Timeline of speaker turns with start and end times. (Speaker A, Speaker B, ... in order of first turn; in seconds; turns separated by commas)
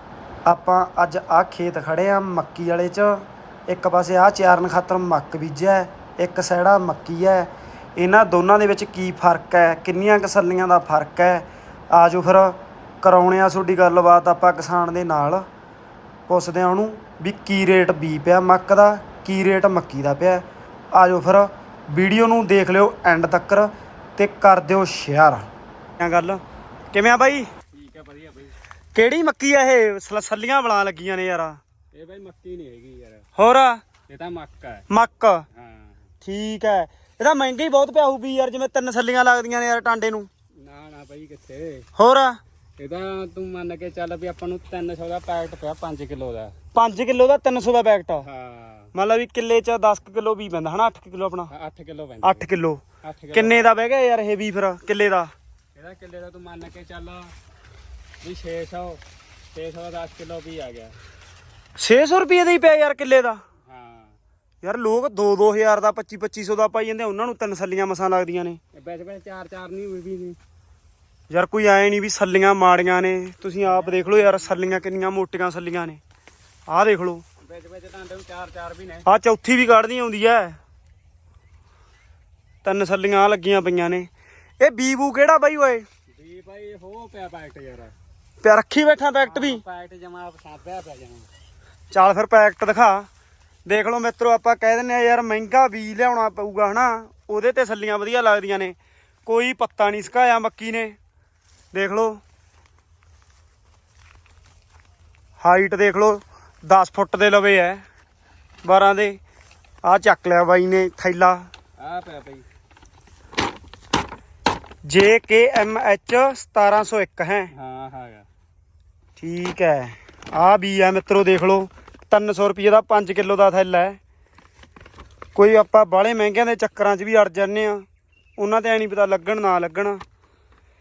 Speaker A: 0.5-15.4, Speaker A: 16.3-25.5, Speaker A: 26.0-27.5, Speaker B: 27.7-28.6, Speaker A: 28.9-31.6, Speaker B: 31.9-33.3, Speaker A: 33.4-33.8, Speaker B: 34.1-34.8, Speaker A: 34.9-35.4, Speaker B: 35.5-36.0, Speaker A: 36.2-40.3, Speaker B: 40.6-41.9, Speaker A: 42.0-42.4, Speaker B: 42.8-46.5, Speaker A: 46.7-48.3, Speaker B: 48.2-48.9, Speaker A: 48.9-51.5, Speaker B: 51.5-52.5, Speaker A: 52.2-52.8, Speaker B: 53.0-53.7, Speaker A: 53.3-55.3, Speaker B: 55.7-57.3, Speaker B: 58.2-59.0, Speaker B: 59.5-61.0, Speaker A: 61.8-63.4, Speaker B: 63.6-64.2, Speaker A: 64.6-68.6, Speaker B: 68.7-70.4, Speaker A: 71.3-76.0, Speaker B: 73.6-74.8, Speaker A: 76.7-77.2, Speaker B: 77.4-79.0, Speaker A: 79.0-80.5, Speaker A: 82.6-84.1, Speaker A: 84.6-85.8, Speaker B: 86.1-87.9, Speaker A: 88.4-89.6, Speaker B: 89.2-91.3, Speaker A: 91.9-93.1, Speaker A: 93.7-101.0, Speaker A: 101.7-102.2, Speaker A: 105.4-107.8, Speaker A: 108.6-109.2, Speaker A: 109.8-111.5, Speaker B: 111.8-112.4, Speaker A: 114.8-117.5, Speaker B: 117.5-118.2, Speaker A: 119.2-124.0, Speaker A: 125.3-127.8, Speaker A: 128.4-130.0